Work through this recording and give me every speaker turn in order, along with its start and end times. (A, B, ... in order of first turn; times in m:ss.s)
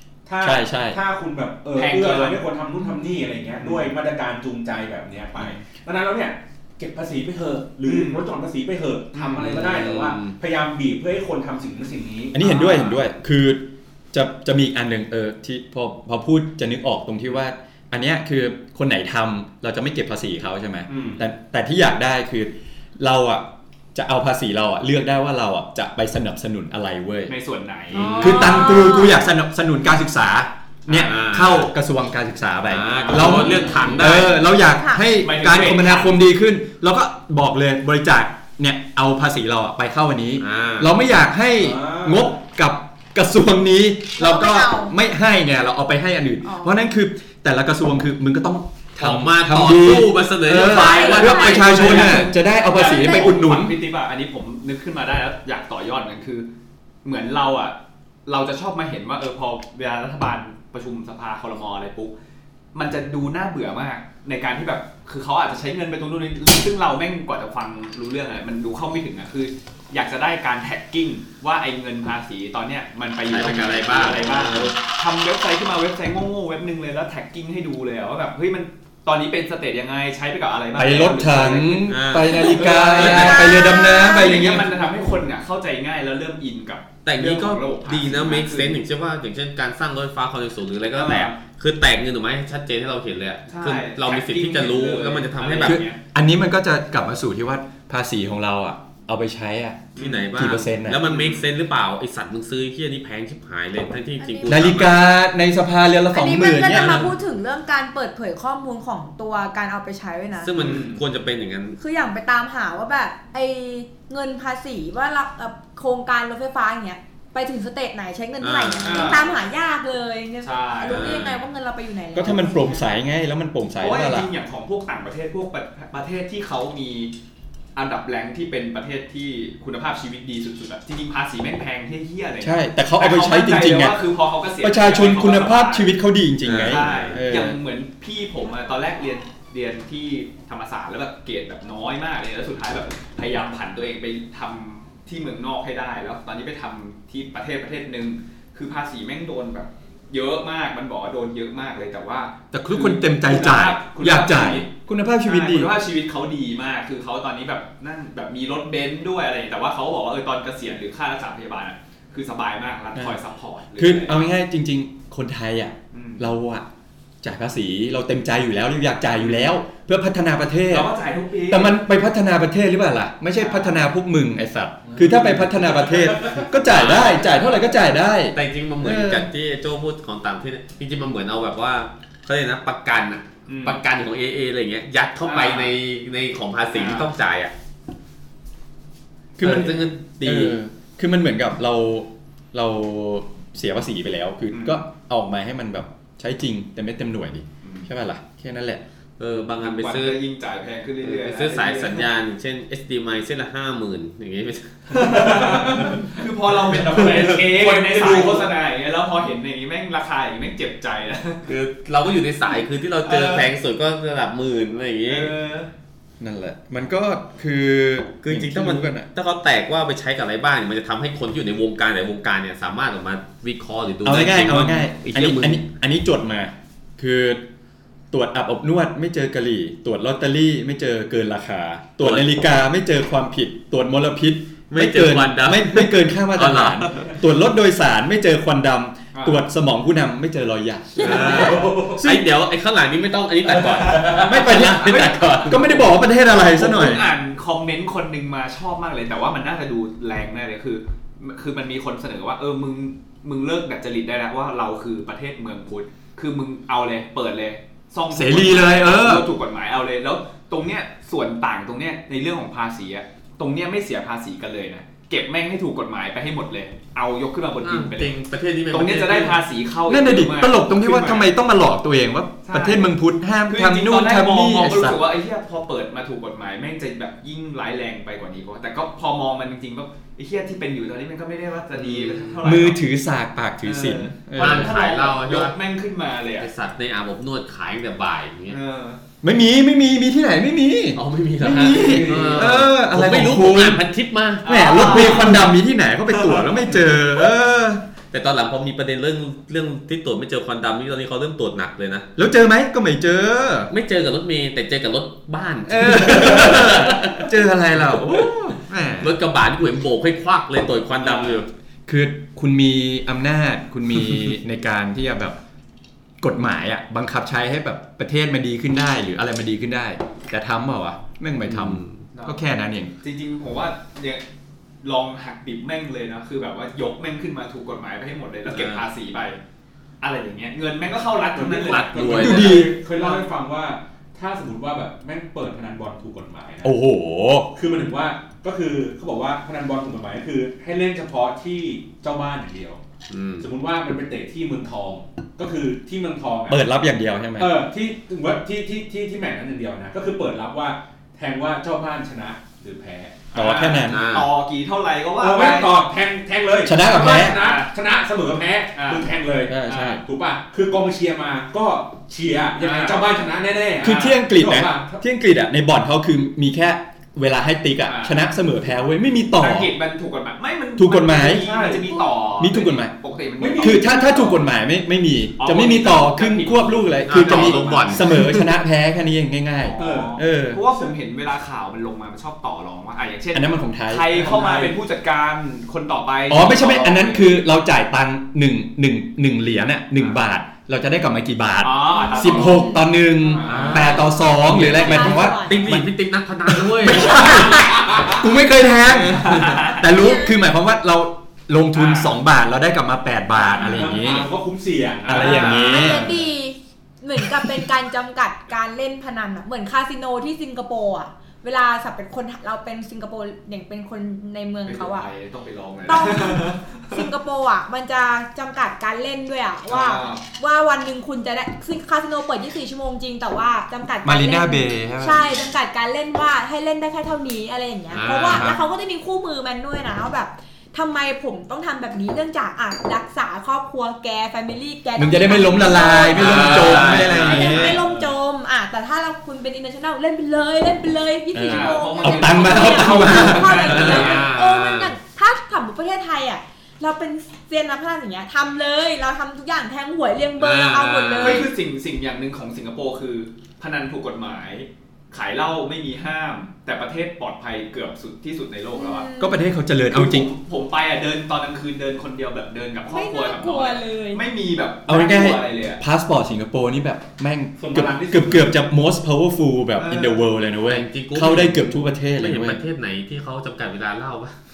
0:00.3-0:12.5 A
0:00.4-0:01.0 B
0:01.7-0:02.4 C
0:03.6-0:03.9 C
0:07.8-0:08.2 C
0:09.1-0:09.8 C
0:09.4-0:10.4 D
0:12.3-0:27.3 B
0:12.4-0:13.0 C
0:20.9-0:21.2 A
0:27.3-0:28.5 C
0:27.9-0:28.7 D
0:27.9-0:29.2 E
0:28.2-0:53.8 B
0:30.9-0:31.7 D
0:32.7-0:34.4 D
0:32.9-0:34.1 C
0:34.7-0:35.1 E
0:35.1-0:36.2 C
0:40.4-0:40.9 D
0:41.6-0:42.3 A
0:44.2-0:44.9 E
0:46.4-0:46.8 E
0:49.0-0:52.3 D
0:50.6-0:52.0 E
0:51.1-0:56.5 C
0:52.8-0:53.4 E
0:57.0-1:02.1 C
1:02.7-1:23.5 C
1:13.3-1:14.7 D
1:20.8-1:24.8 B
1:21.9-1:23.5 D
1:23.1-1:24.4 E
1:24.0-1:28.8 C
1:27.0-1:35.8 D
1:31.0-1:31.4 C
1:33.5-1:36.0 C
1:35.6-1:41.0 B
1:40.0-1:40.3 C
1:40.0-1:45.1 D
1:41.0-1:41.5 C
1:44.2-1:44.7 E
1:44.4-1:47.1 B
1:46.1-1:50.7 E
1:46.7-1:47.1 D
1:50.4-1:51.8 D
1:50.6-1:51.0 C
1:51.8-2:02.8 E
1:58.4-1:59.3 D
1:58.8-1:59.4 C
2:00.4-2:01.3 C
2:00.8-2:01.4 D
2:02.1-2:04.3 B
2:03.8-2:07.1 C
2:07.8-2:16.0 C
2:12.4-2:14.0 B
2:14.6-2:17.6 B
2:16.5-2:17.2 D
2:16.5-2:34.7 C
2:32.5-2:35.7 B
2:35.2-2:44.2 C
2:43.8-2:46.7 B
2:45.9-2:46.3 C
2:47.2-2:50.9 B
2:49.2-2:49.6 C
2:50.7-2:51.7 C
2:51.5-2:59.3 B
2:53.3-2:53.8 C
2:56.0-2:56.3 A
2:56.7-2:57.4 D
2:58.3-3:07.5 D
3:03.5-3:03.8 C
3:05.2-3:05.7 C
3:06.7-3:07.1 C
3:09.4-3:18.8 B
3:09.4-3:10.6 D
3:14.5-3:14.8 C
3:19.2-3:20.2 D
3:19.6-3:22.1 C
3:21.0-3:25.1 D
3:24.9-3:31.5 C
3:25.0-3:26.0 A
3:26.6-3:28.6 A
3:31.5-3:35.3 D
3:33.0-3:33.5 C
3:35.1-3:35.7 C
3:36.2-3:39.1 B
3:38.2-3:45.6 D
3:44.0-3:47.4 B
3:48.1-4:02.2 B
3:52.0-3:52.3 D
3:54.7-3:57.1 D
3:59.1-3:59.4 C
4:01.0-4:05.9 D
4:01.1-4:02.0 A
4:01.2-4:01.5 C
4:03.6-4:28.1 C
4:04.1-4:07.1 B
4:18.1-4:19.3 B
4:27.6-4:29.4 D
4:28.7-4:31.3 C
4:29.9-4:35.0 B
4:32.4-4:32.9 C
4:33.5-4:42.8 C
4:41.8-4:42.4 D
4:42.4-4:44.8 B
4:43.6-4:46.5 C
4:44.4-4:45.6 D
4:46.4-4:48.6 D
4:48.5-4:49.0 C
4:49.2-4:53.8 B
4:51.0-4:55.4 D
4:51.8-4:52.5 A
4:54.4-4:55.5 C
4:54.4-4:57.8 B
4:58.1-5:02.1 D
5:02.2-5:03.7 B
5:03.7-5:07.3 D
5:05.7-5:09.1 B
5:09.0-5:11.5 D
5:11.1-5:11.4 C
5:11.9-5:15.4 B
5:16.2-5:22.9 B
5:21.4-5:22.0 D
5:23.0-5:24.2 C
5:24.8-5:29.4 C
5:28.5-5:28.8 D
5:30.0-5:33.3 C
5:31.3-5:36.8 A
5:31.6-5:32.6 D
5:32.2-5:32.7 B
5:36.6-5:37.5 B
5:37.5-5:42.8 A
5:43.1-5:43.5 D
5:43.4-5:46.6 A
5:46.5-5:47.6 B
5:47.4-5:53.3 A
5:53.3-5:55.8 C
5:53.3-5:54.0 B
5:53.9-5:54.3 D
5:55.2-6:05.0 A
5:56.6-5:57.4 B
5:57.0-5:57.7 C
5:58.8-5:59.1 C
5:59.5-6:00.0 B
5:59.7-6:00.0 C
6:02.6-6:03.0 C
6:03.8-6:09.7 B
6:03.8-6:04.2 C
6:07.9-6:08.2 C
6:09.4-6:14.1 C
6:10.8-6:11.5 B
6:11.2-6:12.1 A
6:12.4-6:12.9 B
6:13.4-6:14.4 A
6:13.6-6:20.6 B
6:15.4-6:18.1 C
6:17.0-6:18.4 D
6:19.6-6:27.4 C
6:19.8-6:20.2 A
6:23.3-6:24.2 B
6:24.1-6:24.8 A
6:26.3-6:35.9 B
6:31.6-6:32.8 C
6:31.9-6:32.9 E
6:33.4-6:34.0 A
6:33.4-6:34.0 C
6:33.4-6:37.6 D
6:34.0-6:35.7 E
6:36.5-6:44.3 B
6:37.6-6:38.2 A
6:39.0-6:39.9 C
6:40.0-6:40.4 E
6:41.7-6:42.1 C
6:43.5-6:44.1 C
6:43.6-6:45.7 A
6:45.1-6:46.2 B
6:45.1-6:45.7 C
6:45.5-6:55.1 E
6:54.7-6:57.0 C
6:55.9-7:31.5 E
6:59.7-7:00.3 C
7:04.0-7:05.4 B
7:07.9-7:08.6 D
7:08.3-7:08.6 B
7:15.0-7:17.8 B
7:16.0-7:17.8 D
7:16.4-7:17.6 C
7:21.3-7:24.0 B
7:21.4-7:24.3 C
7:23.5-7:25.0 D
7:30.4-7:31.5 D
7:31.2-7:39.1 C
7:38.7-7:39.4 E
7:39.2-7:40.3 B
7:39.9-7:45.8 C
7:42.9-7:44.2 E
7:44.9-7:52.6 B
7:47.6-7:48.5 A
7:49.8-7:50.2 C
7:50.6-7:54.3 D